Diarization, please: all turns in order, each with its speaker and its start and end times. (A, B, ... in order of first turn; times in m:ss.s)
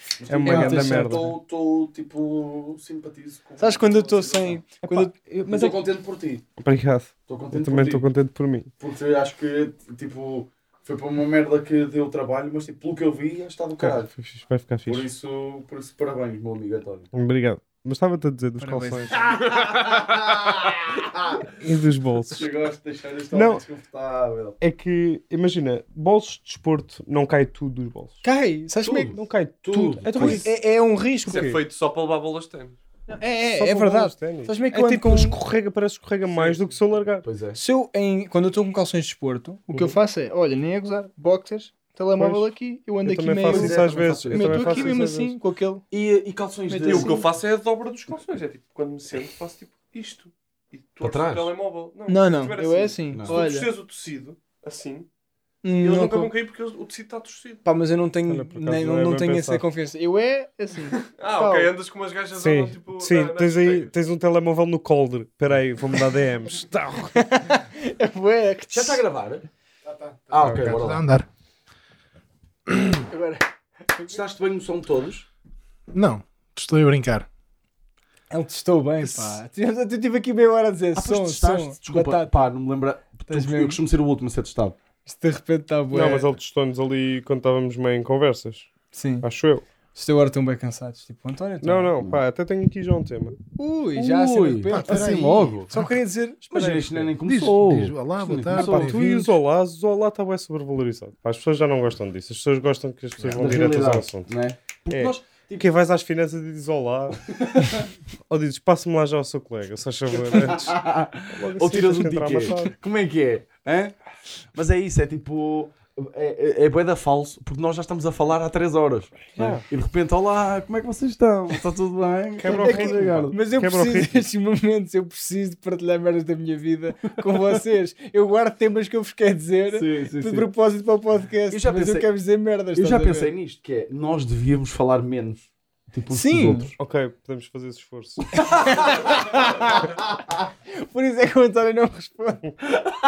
0:00.2-0:04.6 A
0:00.3-0:01.3 B
0:00.4-0:01.3 C
0:03.6-0:05.1 C
0:04.8-0:05.8 B
0:05.4-0:06.4 A
0:06.6-0:08.7 B
0:07.3-0:08.1 A
0:08.8-0:14.1 A
0:13.8-0:15.1 B
0:14.8-0:17.1 A
0:17.1-0:19.4 B
0:18.6-0:19.3 C
0:19.1-0:21.5 A
0:21.5-0:22.5 B
0:22.3-0:24.6 A
0:23.3-0:23.6 B
0:24.6-0:28.2 B
0:28.2-0:29.2 C
0:28.8-0:30.4 A
0:29.1-0:30.5 B
0:30.1-0:31.5 C
0:31.2-0:31.7 B
0:31.3-0:32.8 D
0:33.1-0:35.4 C
0:33.6-0:37.2 B
0:36.3-0:36.6 D
0:37.2-0:37.6 A
0:37.5-0:45.8 C
0:42.2-0:42.4 B
0:43.0-0:45.4 B
0:43.5-0:44.8 A
0:43.5-0:44.1 D
0:45.9-0:47.3 A
0:46.7-0:55.1 D
0:46.8-0:47.2 C
0:51.0-0:51.5 A
0:52.1-0:53.7 C
0:53.1-0:53.4 A
0:55.6-0:56.3 C
0:55.8-0:57.6 D
0:57.6-1:01.7 C
0:58.3-0:59.6 B
1:00.9-1:03.9 D
1:02.3-1:07.2 B
1:07.1-1:09.0 C
1:08.7-1:09.4 A
1:09.9-1:11.3 E
1:10.3-1:11.0 A
1:10.4-1:10.7 B
1:12.7-1:13.0 E
1:13.1-1:14.2 C
1:14.1-1:15.2 A
1:15.9-1:17.3 E
1:18.3-1:22.4 C
1:19.0-1:19.4 E
1:21.0-1:24.7 A
1:23.3-1:23.8 C
1:25.0-1:26.3 C
1:25.9-1:28.7 B
1:28.9-1:29.2 C
1:29.2-1:29.6 B
1:29.9-1:31.9 C
1:31.6-1:33.4 B
1:33.6-1:37.1 C
1:34.0-1:35.7 A
1:34.7-1:35.9 E
1:36.5-1:39.3 A
1:36.5-1:36.8 B
1:37.2-1:39.0 E
1:38.5-1:44.3 B
1:43.2-1:45.6 A
1:44.9-1:47.2 B
1:47.3-1:47.8 A
1:48.3-1:50.8 B
1:50.2-1:54.0 A
1:51.3-1:52.7 B
1:54.5-2:03.4 A
1:59.4-1:59.6 B
2:02.4-2:04.2 B
2:02.4-2:13.3 C
2:09.7-2:10.5 A
2:11.5-2:12.1 A
2:12.7-2:16.7 A
2:16.1-2:16.7 C
2:16.8-2:18.6 B
2:18.3-2:18.9 A
2:18.4-2:19.9 C
2:20.7-2:22.5 C